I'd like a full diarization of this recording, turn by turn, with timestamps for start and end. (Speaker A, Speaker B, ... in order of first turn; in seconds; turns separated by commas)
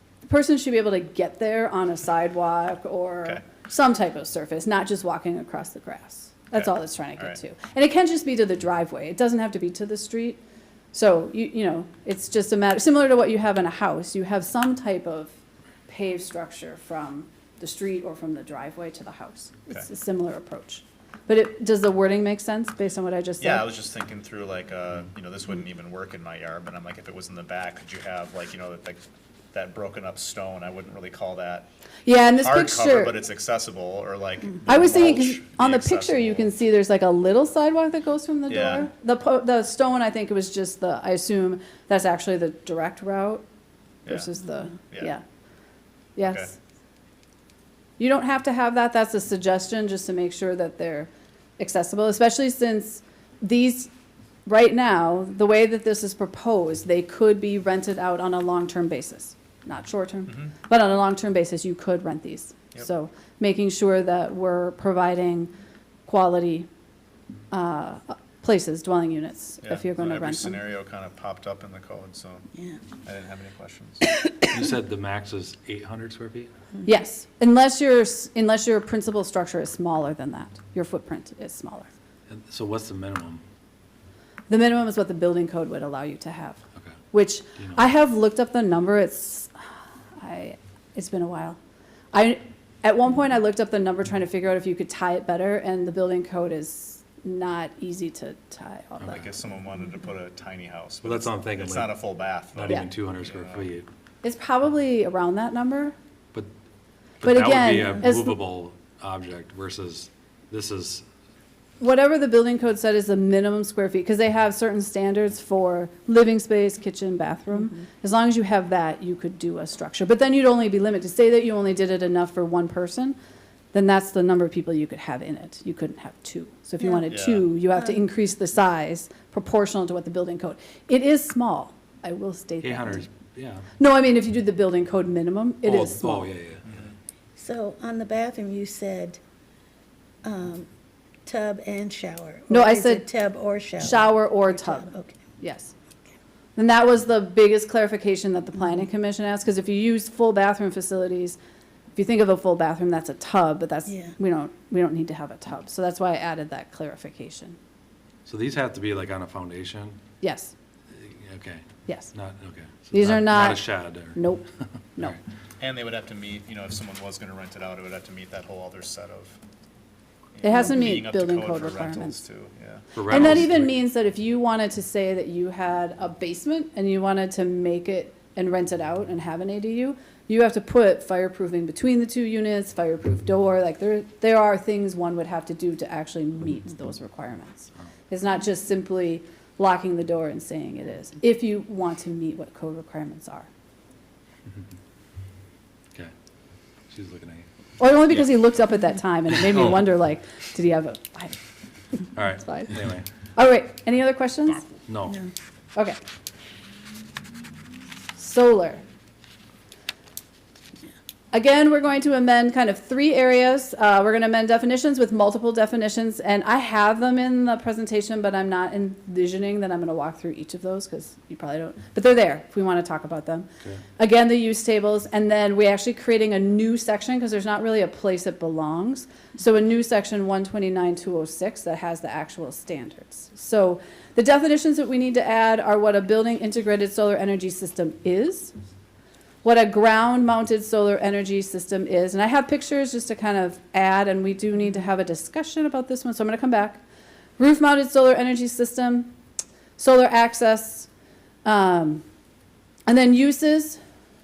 Speaker A: 0.3-10.4, Speaker B: 6.5-7.4, Speaker A: 10.9-15.3, Speaker A: 15.9-23.7, Speaker B: 23.4-29.0, Speaker B: 29.5-31.7, Speaker A: 32.0-33.2, Speaker B: 32.4-36.5, Speaker A: 34.7-43.4, Speaker B: 38.5-38.9, Speaker B: 44.1-44.3, Speaker A: 44.1-45.2, Speaker A: 46.2-46.5, Speaker B: 46.2-46.5, Speaker A: 48.0-53.9, Speaker A: 54.5-65.5, Speaker A: 66.1-66.7, Speaker A: 67.5-70.6, Speaker B: 69.6-72.5, Speaker B: 73.0-74.1, Speaker C: 74.5-76.5, Speaker A: 76.8-81.9, Speaker C: 82.3-83.4, Speaker A: 84.5-86.6, Speaker A: 87.1-89.6, Speaker C: 87.6-87.8, Speaker A: 90.2-91.6, Speaker A: 92.1-99.3, Speaker B: 99.0-103.7, Speaker C: 101.0-102.0, Speaker C: 102.5-103.9, Speaker A: 104.2-105.9, Speaker C: 107.2-111.0, Speaker A: 107.2-108.3, Speaker A: 111.8-123.2, Speaker A: 123.7-133.1, Speaker B: 127.1-127.5, Speaker C: 132.6-133.7, Speaker A: 133.8-136.3, Speaker C: 135.7-136.7, Speaker B: 136.7-136.9, Speaker D: 137.4-139.2, Speaker D: 140.2-140.7, Speaker D: 141.3-145.2, Speaker A: 142.5-143.1, Speaker A: 143.8-145.7, Speaker A: 146.6-151.4, Speaker A: 152.0-157.6, Speaker D: 153.9-154.1, Speaker C: 158.3-160.0, Speaker A: 160.2-160.5, Speaker C: 161.0-164.2, Speaker A: 162.9-164.5, Speaker B: 165.6-169.4, Speaker B: 170.4-173.4, Speaker A: 170.4-172.2, Speaker C: 172.9-173.7, Speaker A: 173.1-193.5, Speaker C: 196.9-197.5, Speaker A: 197.8-201.4, Speaker C: 199.4-199.9, Speaker C: 202.2-203.1, Speaker A: 202.3-202.8, Speaker A: 203.3-204.7, Speaker C: 204.9-205.2, Speaker A: 208.2-208.8, Speaker A: 211.3-238.5, Speaker A: 239.4-246.8, Speaker A: 247.4-249.1, Speaker A: 249.8-250.9, Speaker A: 251.4-252.0, Speaker A: 252.9-253.8